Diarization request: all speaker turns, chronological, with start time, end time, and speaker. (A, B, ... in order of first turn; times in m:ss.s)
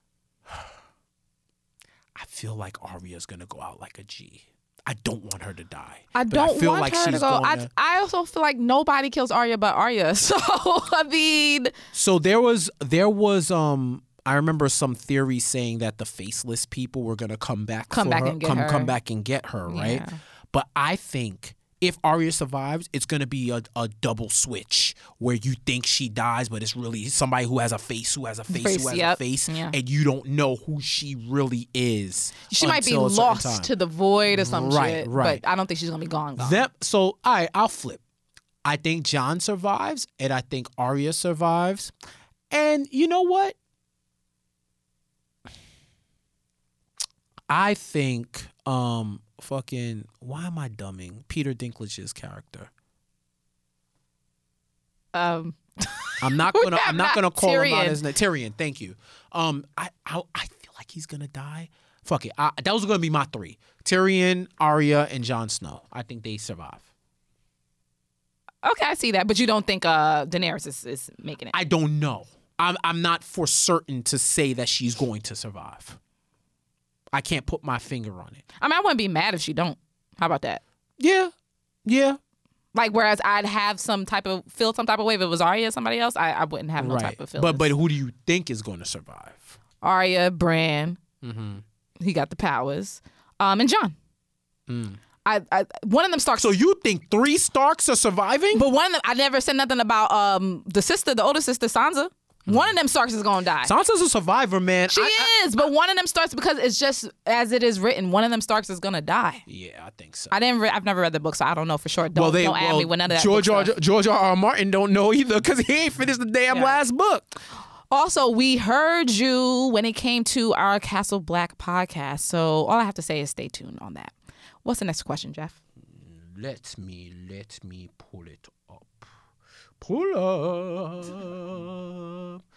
0:02.1-0:07.7 A
0:06.1-0:11.7 B
0:11.9-0:33.7 A
0:17.9-0:18.9 B
0:19.7-0:20.2 B
0:28.5-0:29.8 B
0:32.5-0:36.6 B
0:34.3-0:35.4 A
0:36.4-0:38.0 A
0:38.6-0:41.9 A
0:42.5-0:43.6 A
0:47.5-0:52.7 A
0:55.1-0:58.0 B
0:56.2-1:06.9 A
1:08.6-1:11.5 B
1:11.5-1:16.0 A
1:17.1-1:18.4 A
1:18.6-1:20.6 B
1:21.0-1:21.3 A
1:21.8-1:22.2 A
1:22.7-1:27.7 B
1:26.8-1:29.6 A
1:29.8-1:31.0 B
1:31.2-1:31.6 A
1:32.0-1:33.9 B
1:34.7-1:35.0 A
1:35.2-1:36.5 B
1:36.4-1:38.6 A
1:38.5-1:43.7 B
1:42.5-1:42.7 A
1:43.6-1:45.3 A
1:44.9-1:49.4 B
1:49.4-1:50.3 A
1:50.3-1:53.7 B
1:52.1-1:57.4 A
1:56.5-1:56.8 B
1:57.9-2:04.1 B
2:04.6-2:05.6 B
2:05.8-2:09.1 A
2:09.8-2:12.4 A